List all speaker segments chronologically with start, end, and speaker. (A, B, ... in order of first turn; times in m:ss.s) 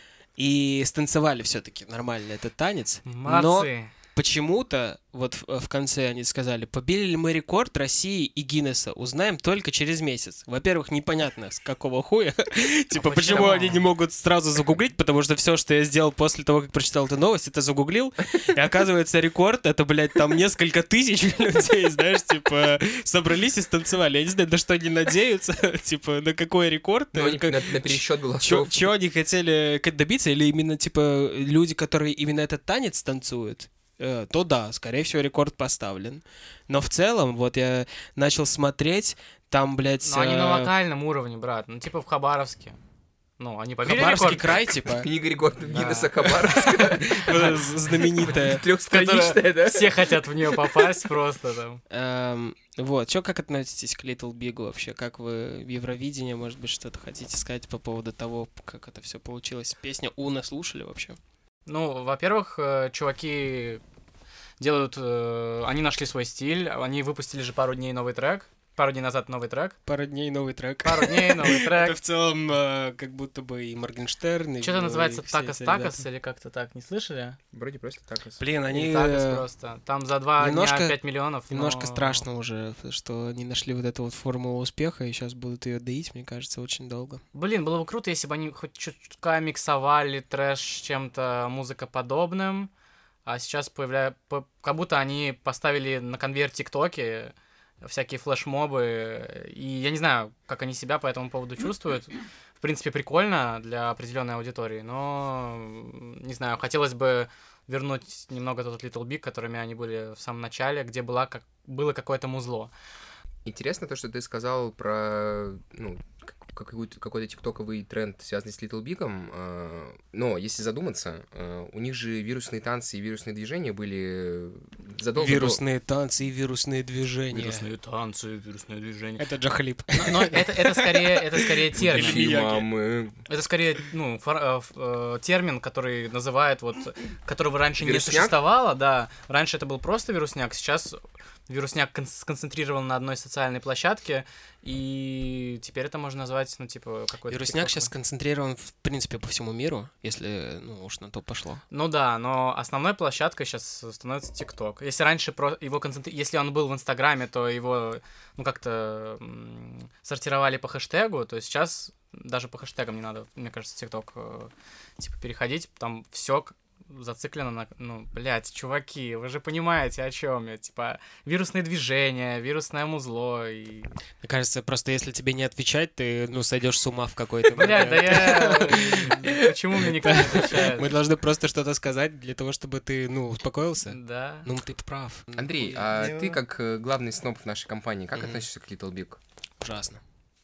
0:00.4-0:40.7 A
0:03.1-0:03.9 B
0:12.9-0:13.9 B
0:27.1-0:28.9 C
0:40.0-0:42.8 B
0:43.4-0:44.6 B
0:43.8-0:45.1 A
0:44.9-0:47.7 C
0:45.7-0:46.2 B
0:46.3-0:48.7 A
0:48.2-0:50.5 C
0:48.9-0:51.8 B
0:51.9-1:01.2 A
1:01.7-1:03.8 B
1:04.6-1:09.8 B
1:09.9-1:16.0 A
1:10.8-1:12.0 B
1:14.6-1:17.4 B
1:17.5-1:18.4 C
1:18.4-1:19.4 A
1:18.7-1:22.2 B
1:20.4-1:21.0 A
1:21.5-1:27.2 A
1:27.3-1:32.7 B
1:33.3-1:52.7 B
1:53.4-2:05.6 C
2:05.2-2:07.7 A
2:07.3-2:09.2 B
2:09.2-2:12.7 A
2:09.9-2:12.3 B
2:11.8-2:13.2 C
2:13.3-2:27.9 B
2:17.8-2:18.4 C
2:27.3-2:31.6 A
2:31.7-2:53.9 B
2:54.2-3:06.3 A
2:57.5-3:00.9 B
3:03.9-3:04.5 B
3:05.4-3:09.2 C
3:08.2-3:08.4 A
3:09.6-3:10.0 A